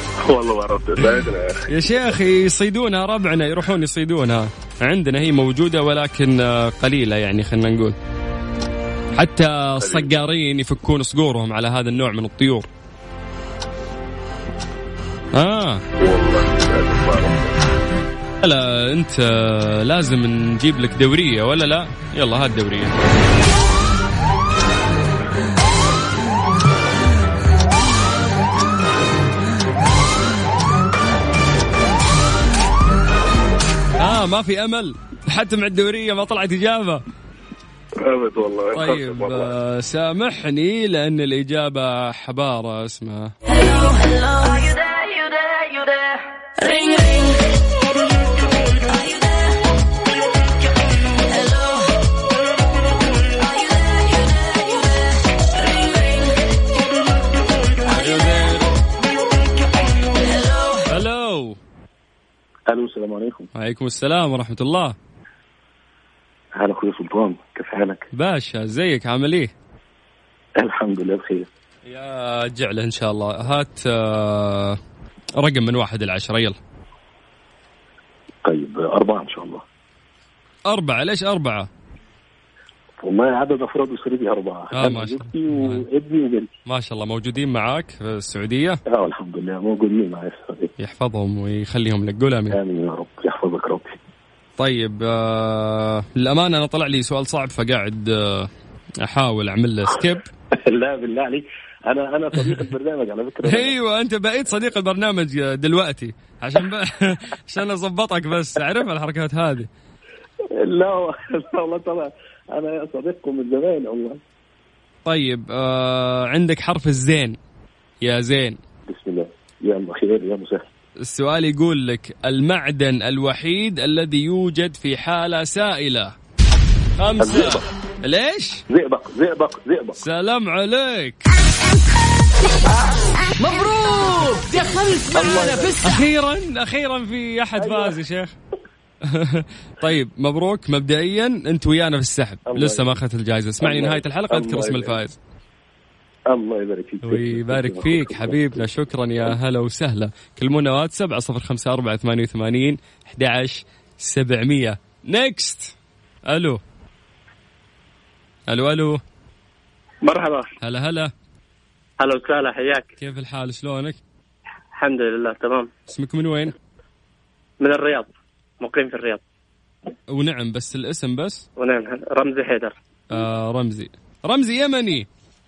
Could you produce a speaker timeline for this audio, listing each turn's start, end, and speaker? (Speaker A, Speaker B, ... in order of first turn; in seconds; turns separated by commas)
Speaker A: 0.2-2.1, Speaker B: 1.7-8.0, Speaker B: 9.2-12.7, Speaker A: 9.8-10.1, Speaker B: 15.3-15.8, Speaker A: 16.0-17.6, Speaker B: 18.4-22.9, Speaker B: 34.0-37.0, Speaker A: 38.0-39.5, Speaker B: 38.7-43.3, Speaker B: 57.9-58.7, Speaker B: 60.9-61.6, Speaker C: 62.7-63.5, Speaker B: 63.5-65.0, Speaker C: 66.6-68.1, Speaker B: 68.1-69.5, Speaker C: 70.6-71.5, Speaker B: 71.9-74.8, Speaker B: 75.4-76.6, Speaker C: 78.5-79.6, Speaker B: 80.7-81.7, Speaker C: 83.0-86.5, Speaker B: 84.7-85.9, Speaker B: 86.7-88.8, Speaker C: 88.9-90.7, Speaker B: 90.8-92.6, Speaker C: 92.5-94.0, Speaker B: 94.6-98.5, Speaker B: 99.0-100.3, Speaker C: 100.7-103.7, Speaker B: 103.4-109.7, Speaker C: 110.6-114.2, Speaker B: 115.1-117.4, Speaker B: 118.0-118.6, Speaker C: 118.9-120.7, Speaker B: 121.0-126.1, Speaker B: 127.0-128.7, Speaker C: 127.2-127.7, Speaker C: 128.7-130.0, Speaker B: 130.0-131.3, Speaker D: 133.4-136.0, Speaker C: 135.1-135.8, Speaker B: 135.8-138.3, Speaker C: 137.6-137.9, Speaker B: 139.1-145.2, Speaker C: 142.5-143.0, Speaker C: 143.6-145.0, Speaker C: 146.3-148.7, Speaker B: 147.0-155.7, Speaker B: 156.3-156.6, Speaker B: 158.5-159.0, Speaker E: 160.1-160.4, Speaker B: 160.6-161.1, Speaker E: 162.0-162.9, Speaker B: 163.0-164.0, Speaker E: 164.8-165.7, Speaker B: 165.9-166.5, Speaker E: 167.6-168.1, Speaker E: 168.6-169.2, Speaker B: 170.1-171.5, Speaker E: 171.6-172.8, Speaker B: 173.1-175.1